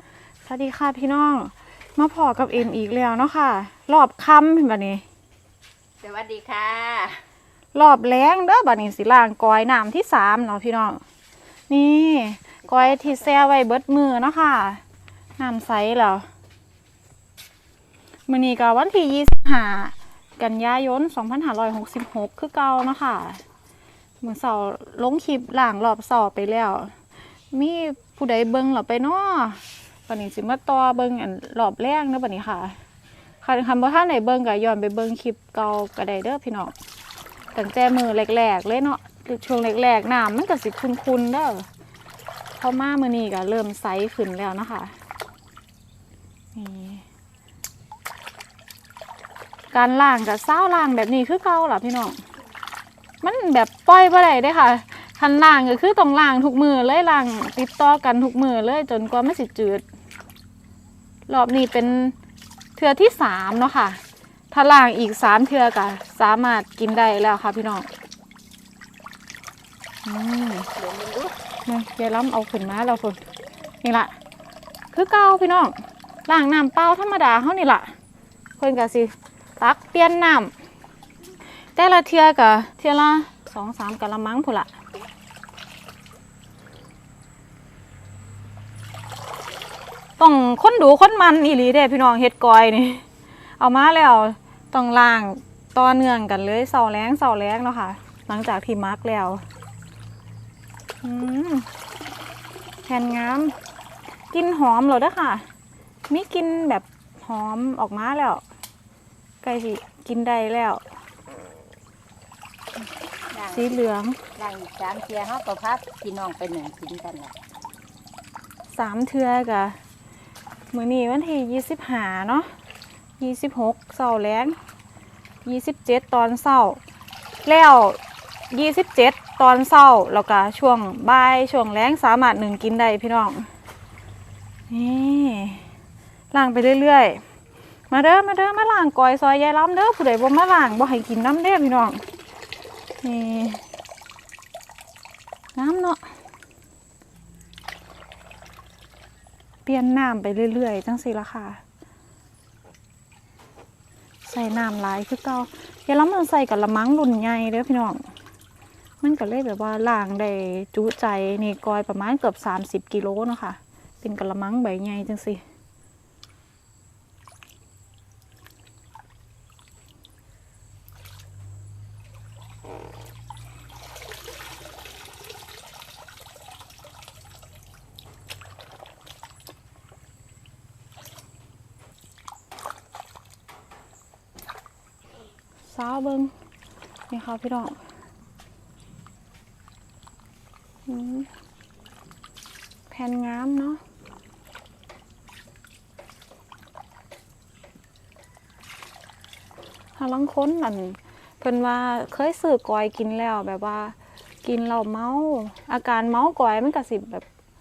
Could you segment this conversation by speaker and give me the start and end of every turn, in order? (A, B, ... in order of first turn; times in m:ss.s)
0:00.4-0:05.0 A
0:06.0-0:07.2 B
0:07.7-0:11.0 A
0:11.7-0:14.8 A
0:12.6-0:13.5 B
0:15.4-0:16.2 A
0:18.3-0:23.4 A
0:24.2-0:26.9 A
0:27.5-0:32.7 A
0:33.4-0:36.7 A
0:37.5-0:41.7 A
0:42.5-0:44.9 A
0:46.5-0:47.0 A
0:49.7-0:52.2 A
0:53.2-0:59.8 A
1:01.3-1:02.1 A
1:02.8-1:04.0 A
1:04.5-1:07.9 A
1:10.0-1:10.7 A
1:10.7-1:11.4 B
1:11.6-1:13.2 A
1:13.8-1:14.2 A
1:14.9-1:15.7 A
1:16.3-1:17.9 A
1:18.6-1:20.5 A
1:21.7-1:24.7 A
1:30.2-1:33.0 A
1:33.6-1:39.4 A
1:41.0-1:41.7 A
1:42.8-1:43.6 A
1:44.3-1:45.4 A
1:46.1-1:48.4 A
1:49.4-1:50.8 A
1:53.3-1:57.4 B
1:53.5-1:54.2 A
1:58.7-1:59.8 A
2:00.7-2:02.5 A
2:03.2-2:04.6 A
2:05.4-2:06.8 A
2:07.4-2:08.0 A
2:08.5-2:13.5 A
2:14.7-2:15.6 A
2:16.3-2:17.2 A
2:17.9-2:22.0 A
2:23.0-2:23.6 A
2:25.6-2:26.0 A
2:29.6-2:31.6 A
2:34.2-2:38.0 A
2:39.0-2:45.4 A
3:05.6-3:06.3 A
3:07.1-3:07.8 A
3:10.8-3:11.3 A
3:12.9-3:13.8 A
3:20.0-3:27.2 A